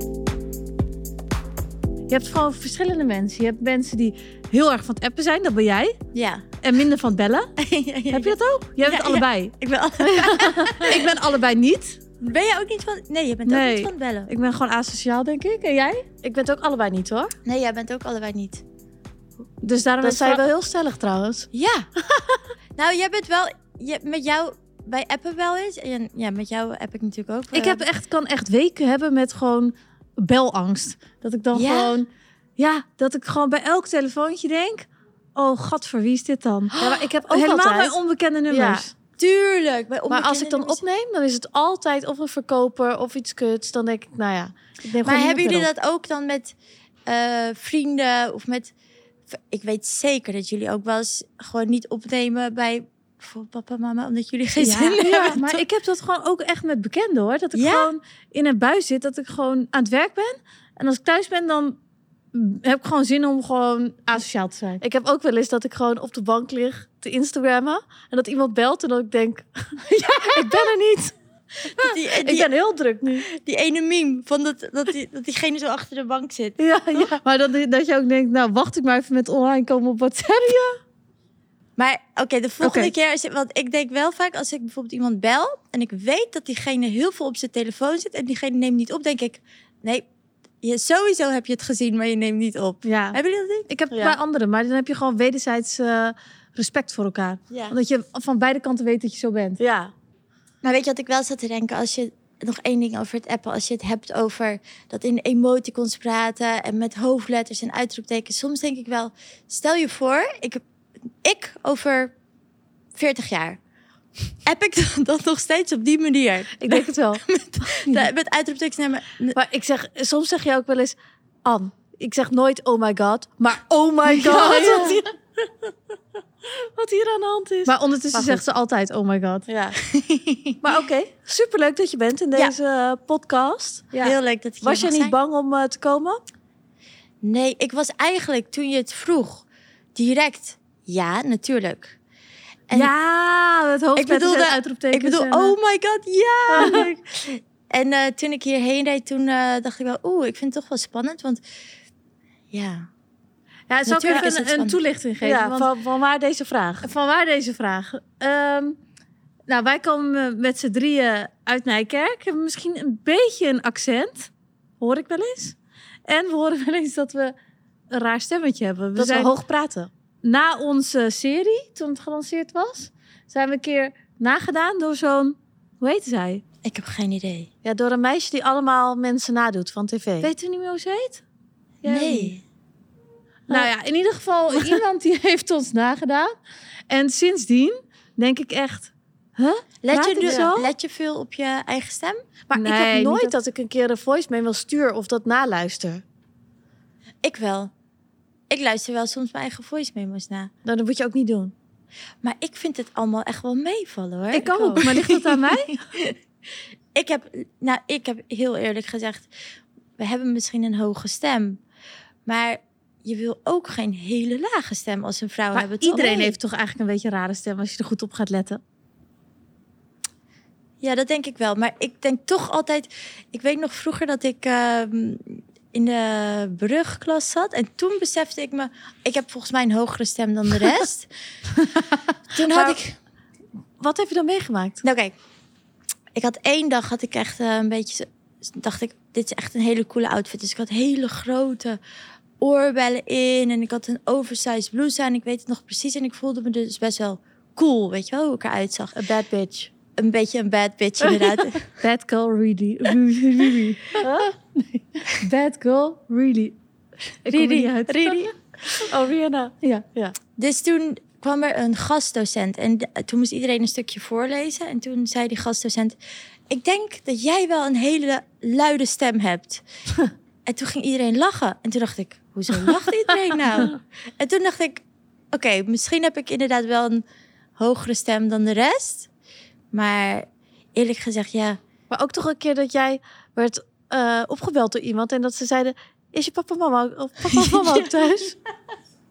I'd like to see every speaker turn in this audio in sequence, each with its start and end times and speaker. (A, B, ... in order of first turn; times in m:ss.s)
0:02.1-0:06.0 A
0:06.1-0:06.4 B
0:06.6-0:07.5 A
0:07.6-0:11.1 B
0:08.1-0:09.6 A
0:10.1-0:12.0 A
0:12.2-0:14.3 B
0:13.5-0:16.0 A
0:16.2-0:17.3 C
0:17.4-0:18.6 B
0:19.6-0:20.4 A
0:20.0-0:21.5 C
0:21.5-0:21.9 B
0:22.8-0:27.8 B
0:27.5-0:32.1 A
0:31.5-0:32.0 B
0:32.6-0:38.9 A
0:36.8-0:38.0 C
0:38.5-0:38.8 C
0:39.2-0:40.8 B
0:40.1-0:45.7 C
0:45.0-0:46.6 B
0:47.1-0:48.7 B
0:49.3-0:55.6 B
0:54.6-1:01.8 A
0:57.5-0:57.9 B
1:02.3-1:04.8 A
1:04.8-1:11.1 C
1:11.8-1:13.3 C
1:11.8-1:12.5 B
1:13.2-1:16.6 B
1:16.6-1:17.2 C
1:16.9-1:20.8 A
1:21.8-1:30.1 B
1:22.6-1:22.9 A
1:30.6-1:33.7 B
1:32.8-1:39.6 A
1:33.9-1:34.2 C
1:37.5-1:37.8 B
1:39.6-1:39.9 C
1:40.6-1:50.6 B
1:51.2-1:52.1 B
1:53.0-1:53.6 B
1:54.4-1:59.4 B
1:56.6-1:57.2 C
1:59.4-2:05.1 C
2:04.1-2:05.0 B
2:04.3-2:04.9 A
2:06.5-2:08.4 C
2:07.7-2:09.5 A
2:09.5-2:09.8 C
2:10.0-2:10.6 B
2:10.6-2:14.0 C
2:14.0-2:15.2 B
2:14.6-2:16.2 C
2:17.2-2:22.0 B
2:22.7-2:25.6 A
2:24.0-2:31.4 B
2:26.5-2:26.8 C
2:32.5-2:32.9 B
2:33.7-2:35.7 A
2:33.9-2:34.8 B
2:35.2-2:36.9 C
2:36.8-2:38.8 A
2:39.5-2:45.6 A
2:46.1-2:47.3 A
2:47.9-2:49.3 A
2:49.0-2:49.9 C
2:50.2-2:56.4 A
2:56.6-2:57.5 B
2:57.6-3:00.3 C
3:00.2-3:01.2 A
3:01.8-3:02.3 A
3:01.8-3:02.4 B
3:03.5-3:06.3 A
3:06.9-3:10.7 A
3:09.8-3:12.2 B
3:10.2-3:10.5 C
3:12.5-3:16.0 C
3:12.5-3:13.3 A
3:17.2-3:17.7 B
3:18.5-3:20.5 B
3:20.6-3:21.5 C
3:22.2-3:26.2 B
3:24.3-3:25.7 A
3:24.4-3:24.8 C
3:27.0-3:29.3 B
3:30.0-3:31.6 B
3:32.2-3:36.4 B
3:35.5-3:38.6 A
3:40.8-3:51.1 B
3:52.3-3:53.0 B
3:52.5-3:52.8 C
3:53.8-3:54.8 C
3:54.8-3:55.2 B
3:56.2-4:01.8 B
4:02.4-4:09.0 B
4:09.0-4:09.7 C
4:10.0-4:11.6 B
4:11.8-4:14.0 A
4:14.0-4:14.3 C
4:15.1-4:16.5 A
4:17.2-4:18.3 A
4:17.3-4:18.3 B
4:18.9-4:20.2 C
4:20.4-4:26.0 B
4:26.5-4:29.6 B
4:30.5-4:37.0 B
4:37.6-4:39.1 B
4:39.7-4:41.6 B
4:41.9-4:48.4 C